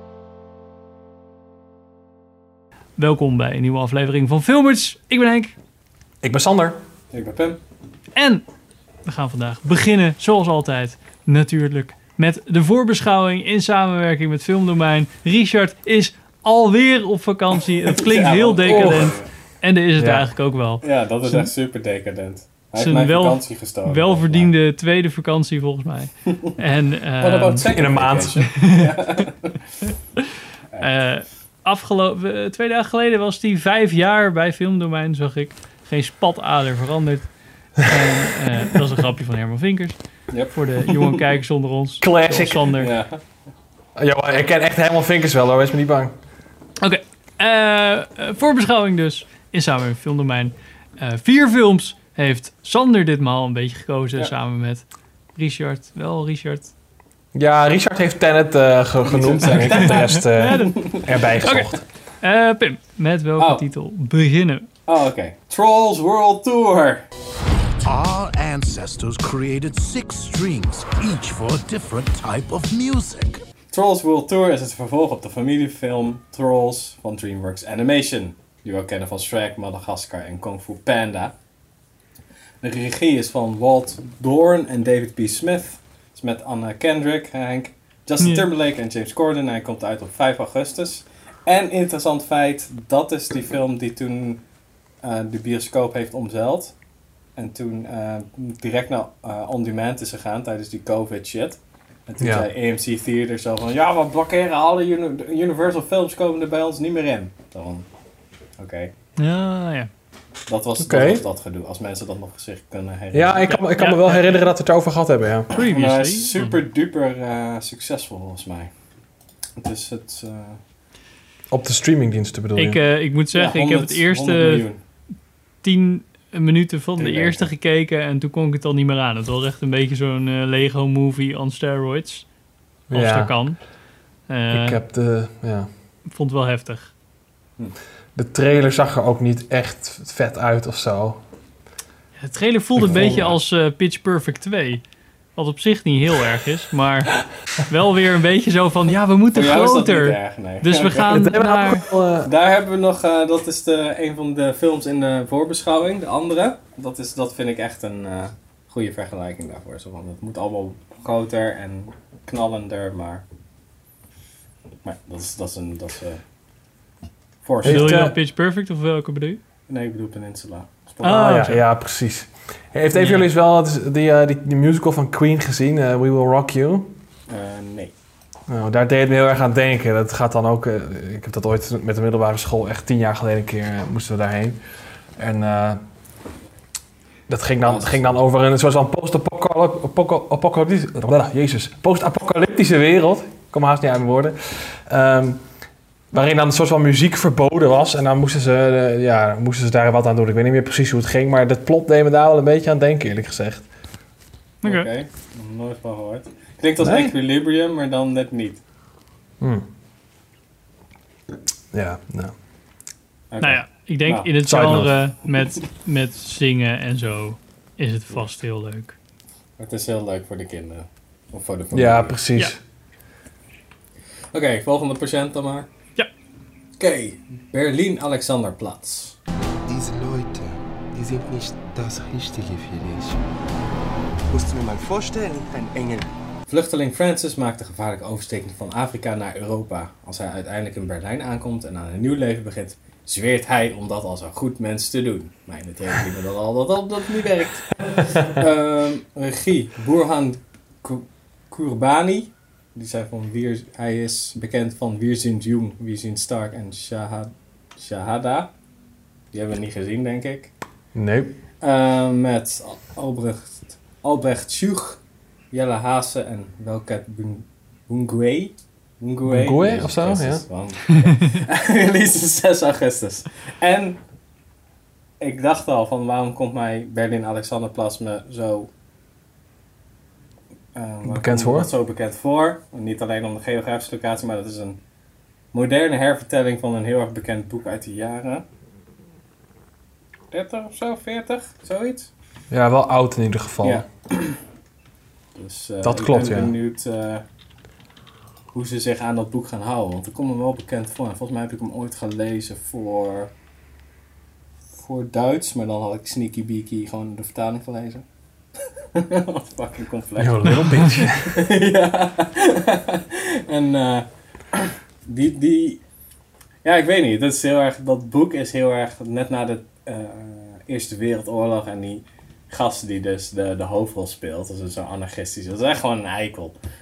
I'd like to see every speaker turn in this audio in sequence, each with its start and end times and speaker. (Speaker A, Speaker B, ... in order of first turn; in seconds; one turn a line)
Speaker A: 3.0-5.5
Speaker B: 6.2-6.8
Speaker C: 7.1-7.6
Speaker A: 8.2-8.4
Speaker A: 9.1-21.5
Speaker C: 17.9-19.3
Speaker B: 20.0-20.3
Speaker C: 20.8-24.5
Speaker A: 22.7-27.7
Speaker C: 27.2-29.8
Speaker B: 27.7-28.5
Speaker A: 28.6-28.8
Speaker A: 30.8-42.9
Speaker C: 40.3-41.1
Speaker B: 42.0-42.7
Speaker C: 42.8-43.4
Speaker B: 44.0-46.1
Speaker A: 46.8-54.8
Speaker A: 55.4-56.7
Speaker B: 57.3-61.8
Speaker C: 59.0-61.6
Speaker A: 59.4-61.7
Speaker A: 62.2-64.7
Speaker C: 64.9-67.0
Speaker D: 67.8-73.4
Speaker C: 73.7-81.3
Speaker C: 82.6-94.4
Speaker C: 95.0-96.8
Speaker C: 97.3-107.8
Speaker B: 102.2-102.5
Speaker C: 108.6-108.9
Speaker A: 109.2-109.9
Speaker C: 110.5-113.5
Speaker B: 110.8-111.2
Speaker B: 113.1-115.5
Speaker A: 113.5-114.4
Speaker A: 115.5-116.6
Speaker C: 115.7-118.7
Speaker C: 119.6-120.6
Speaker B: 121.5-122.8
Speaker A: 122.5-124.7
Speaker C: 123.3-124.8
Speaker A: 125.6-132.3
Speaker C: 127.0-127.5
Speaker B: 132.9-133.5
Speaker A: 132.9-133.7
Speaker A: 134.2-134.8
Speaker B: 134.5-135.7
Speaker A: 136.0-136.9
Speaker B: 138.1-141.2
Speaker A: 142.2-144.8
Speaker B: 142.8-143.4
Speaker C: 142.9-143.2
Speaker A: 145.3-151.8
Speaker C: 149.3-151.1
Speaker B: 151.0-152.3
Speaker C: 152.2-163.2
Speaker C: 164.8-166.2
Speaker C: 167.4-168.1
Speaker B: 167.6-168.2
Speaker A: 167.6-169.4
Speaker C: 169.7-171.4
Speaker A: 171.0-171.6
Speaker B: 171.0-176.9
Speaker A: 172.9-173.3
Speaker C: 177.3-177.9
Speaker B: 178.5-184.6
Speaker B: 185.2-185.8
Speaker B: 187.3-195.4
Speaker C: 187.6-188.1
Speaker B: 196.1-203.7
Speaker A: 204.6-204.9
Speaker C: 204.6-208.6
Speaker B: 206.8-207.1
Speaker B: 209.4-209.7
Speaker B: 211.7-212.4
Speaker C: 213.3-214.3
Speaker A: 213.4-218.9
Speaker B: 214.4-215.0
Speaker C: 219.6-222.2
Speaker B: 221.7-222.6
Speaker C: 224.3-225.7
Speaker C: 226.8-229.2
Speaker E: 229.7-233.2
Speaker E: 234.3-236.1
Speaker C: 236.5-258.5
Speaker C: 259.3-260.5
Speaker B: 260.9-261.4
Speaker C: 261.6-274.0
Speaker B: 269.2-270.4
Speaker C: 275.2-278.7
Speaker C: 280.7-284.8
Speaker B: 281.0-281.7
Speaker C: 285.5-288.4
Speaker C: 290.3-292.1
Speaker B: 292.5-293.8
Speaker C: 293.6-294.4
Speaker C: 295.3-297.2
Speaker B: 295.8-296.5
Speaker C: 298.5-303.3
Speaker C: 304.7-308.0
Speaker C: 308.9-315.8
Speaker B: 310.2-311.4
Speaker C: 316.6-326.6